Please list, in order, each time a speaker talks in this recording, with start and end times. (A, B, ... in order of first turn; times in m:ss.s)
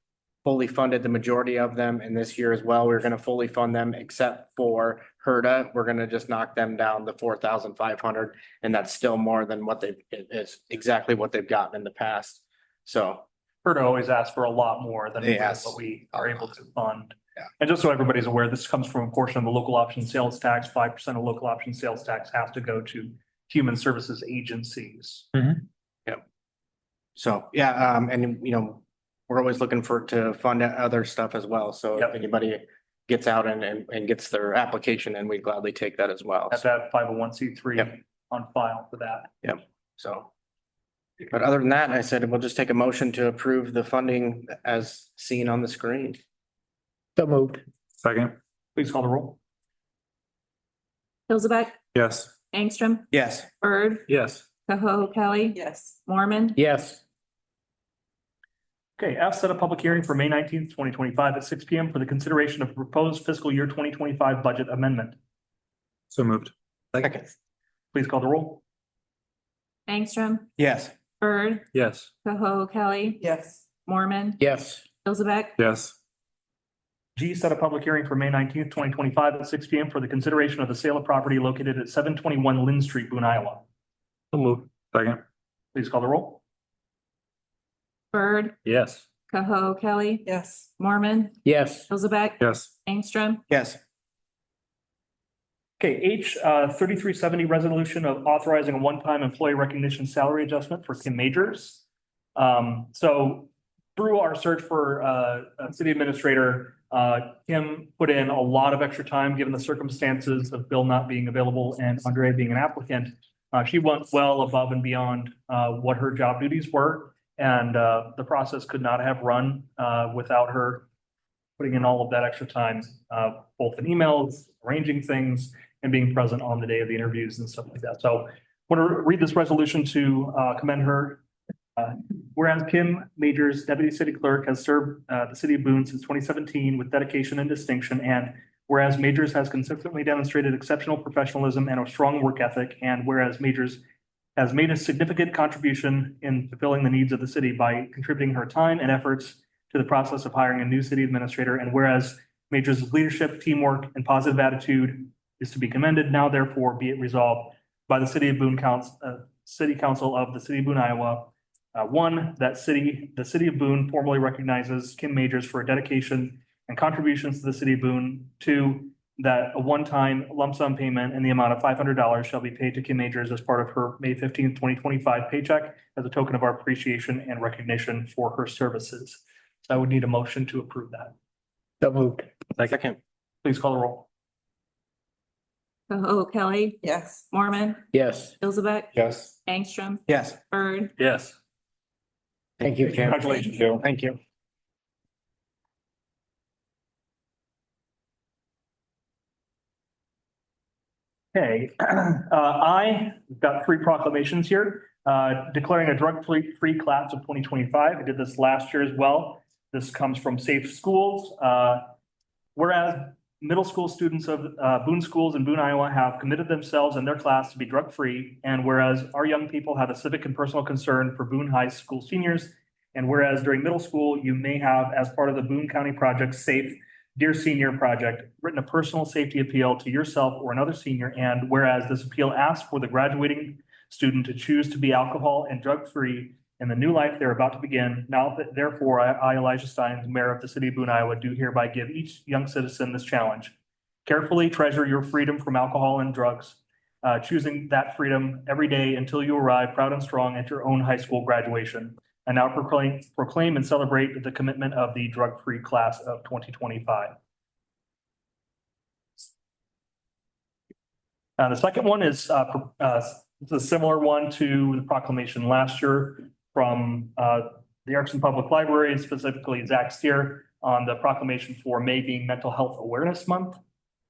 0:00.4-0:13.2 A
0:13.6-0:25.6 B
0:15.2-0:16.5 A
0:27.2-0:36.6 A
0:36.5-0:39.3 B
0:39.4-0:40.3 A
0:41.3-0:46.2 A
0:47.2-0:47.6 C
0:48.0-0:48.3 D
0:48.8-0:49.4 B
0:51.3-0:51.8 E
0:51.9-0:52.3 D
0:52.5-0:53.1 E
0:53.1-0:53.5 A
0:53.6-0:54.1 E
0:54.1-0:54.4 D
0:54.6-0:56.6 E
0:56.6-0:57.0 C
0:59.0-1:05.2 B
1:06.1-1:07.1 D
1:07.9-1:08.6 B
1:09.9-1:10.5 E
1:10.6-1:10.9 A
1:11.2-1:11.7 E
1:11.7-1:12.1 D
1:12.2-1:13.3 E
1:13.8-1:14.4 E
1:14.4-1:14.8 C
1:15.0-1:15.6 E
1:15.6-1:15.9 D
1:17.2-1:23.6 B
1:24.3-1:25.2 D
1:25.7-1:26.4 B
1:28.1-1:28.6 E
1:28.6-1:29.0 D
1:29.3-1:33.4 E
1:31.4-1:31.9 C
1:32.4-1:32.7 D
1:33.5-1:33.8 A
1:35.8-1:41.8 B
1:42.4-2:00.9 B
2:01.6-2:11.2 B
2:11.8-2:23.8 B
2:24.4-3:01.1 B
3:01.8-3:02.3 C
3:02.7-3:03.0 A
3:03.4-3:04.1 B
3:05.9-3:10.9 E
3:07.9-3:08.3 C
3:09.0-3:09.3 D
3:10.1-3:10.4 A
3:11.0-3:11.4 B
3:12.6-3:14.2 A
3:12.6-3:13.1 C
3:13.0-3:13.5 B
3:13.1-3:13.8 D
3:21.3-3:31.8 B
3:32.6-4:17.2 B
4:21.4-4:33.6 B